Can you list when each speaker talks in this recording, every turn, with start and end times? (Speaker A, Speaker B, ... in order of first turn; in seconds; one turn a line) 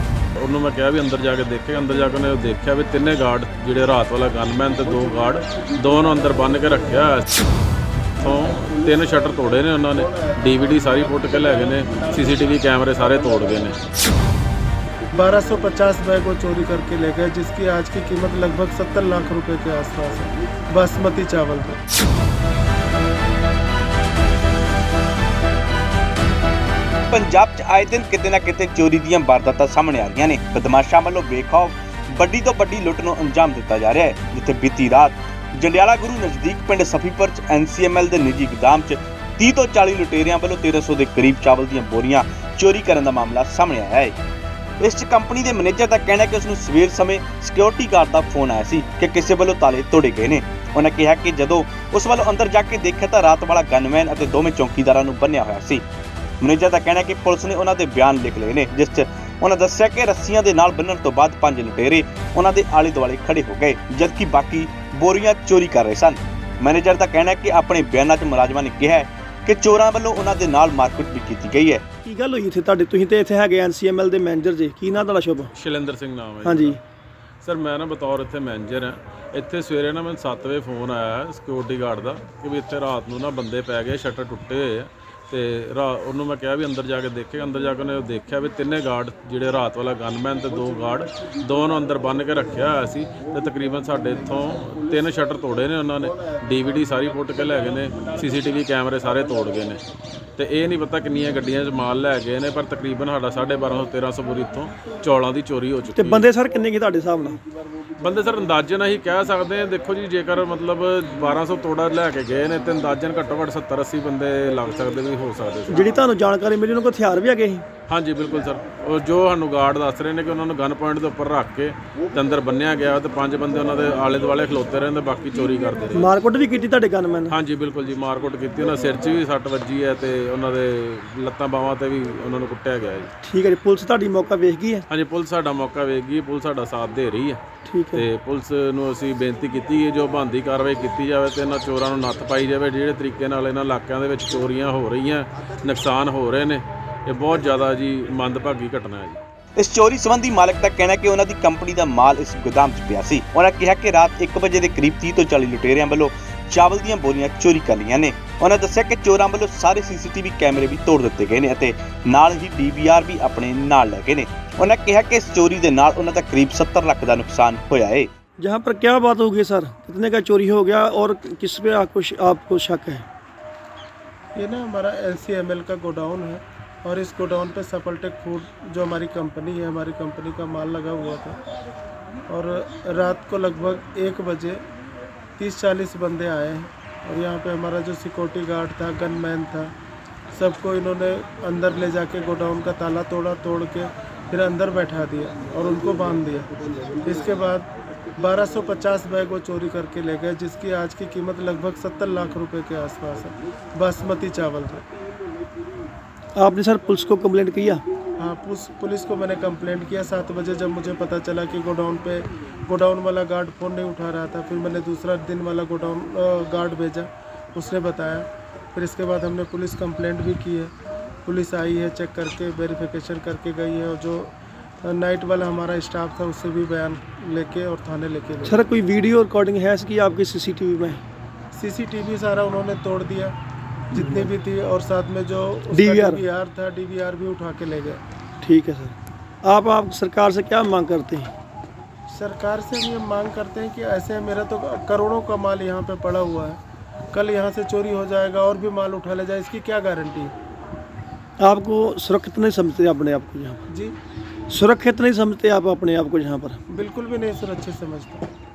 Speaker A: 0.3-7.3
Speaker A: 8.2-13.8
Speaker B: 15.1-21.8
Speaker C: 27.1-44.1
Speaker C: 44.8-55.8
Speaker C: 56.4-71.8
Speaker D: 72.0-75.5
Speaker A: 75.5-76.8
Speaker D: 76.4-76.8
Speaker A: 77.4-99.8
Speaker A: 100.4-106.2
Speaker D: 106.0-107.4
Speaker A: 108.0-116.0
Speaker D: 115.7-117.6
Speaker A: 117.9-126.1
Speaker D: 125.9-127.4
Speaker A: 127.3-133.1
Speaker D: 133.2-134.8
Speaker A: 134.9-137.4
Speaker D: 137.7-138.1
Speaker A: 137.9-149.2
Speaker C: 149.6-168.1
Speaker D: 168.4-173.0
Speaker B: 174.3-181.4
Speaker B: 182.3-184.6
Speaker B: 185.4-189.7
Speaker B: 190.3-196.5
Speaker B: 197.0-204.8
Speaker D: 206.3-207.8
Speaker B: 208.2-220.7
Speaker B: 221.2-228.6
Speaker D: 228.4-231.0
Speaker B: 231.5-233.3
Speaker B: 233.9-238.0
Speaker D: 233.9-234.3
Speaker D: 235.7-236.2
Speaker D: 238.4-241.3
Speaker B: 242.1-246.6
Speaker B: 247.1-250.3
Speaker D: 251.4-253.6
Speaker D: 254.5-256.6
Speaker B: 256.7-258.2